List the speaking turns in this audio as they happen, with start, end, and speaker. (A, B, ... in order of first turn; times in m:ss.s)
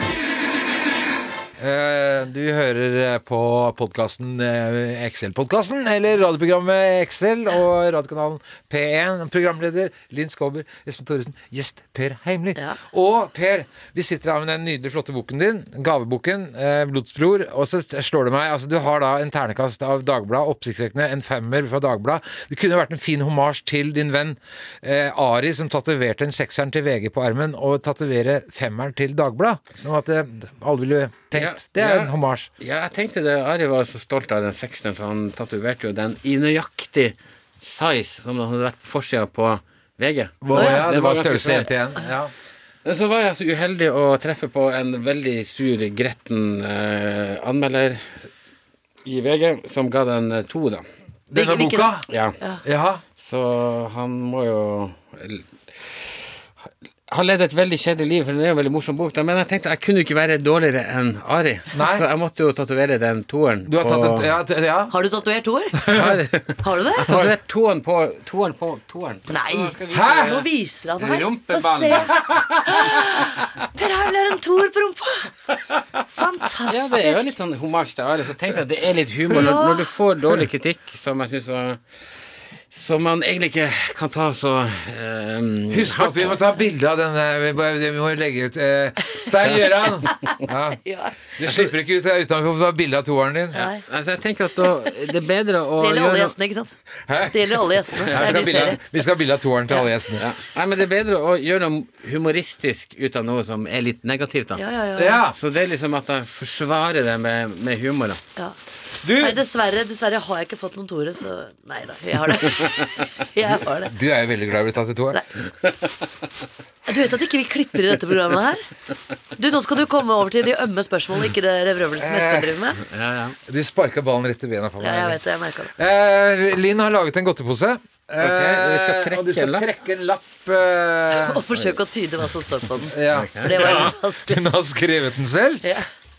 0:01.6-0:32.5 A
0:31.3-0:41.7 B
0:40.4-0:42.3 A
0:40.5-0:40.8 C
0:42.8-0:48.3 B
0:49.0-0:50.9 B
0:51.3-0:52.1 A
0:51.3-0:52.6 C
0:52.1-0:52.4 B
0:52.6-0:53.0 A
0:53.2-0:56.2 B
0:57.1-1:04.3 B
1:01.7-1:02.0 A
1:03.7-1:04.9 A
1:04.9-1:05.8 C
1:05.8-1:06.2 A
1:05.9-1:10.5 B
1:06.6-1:07.1 C
1:09.3-1:12.1 C
1:09.9-1:10.4 A
1:11.0-1:12.7 B
1:12.6-1:15.3 C
1:16.1-1:17.2 C
1:16.7-1:21.8 B
1:19.3-1:19.9 C
1:22.7-1:26.4 B
1:25.7-1:30.8 A
1:30.8-1:31.2 C
1:31.4-1:33.7 A
1:33.5-1:33.8 C
1:33.9-1:36.3 B
1:35.8-1:36.7 C
1:37.1-1:40.3 A
1:37.2-1:38.8 C
1:38.0-1:38.7 B
1:40.2-1:44.6 B
1:44.6-1:45.2 C
1:45.0-1:45.4 A
1:45.4-1:48.2 B
1:49.0-1:49.4 A
1:49.2-1:53.9 C
1:53.8-1:55.2 A
1:56.9-1:58.6 C
1:59.4-2:02.8 C
2:02.0-2:02.5 A
2:02.8-2:03.4 B
2:03.5-2:05.2 A
2:04.8-2:05.8 C
2:05.8-2:11.4 A
2:08.2-2:09.7 B
2:11.1-2:14.4 C
2:12.8-2:15.6 A
2:13.1-2:13.9 B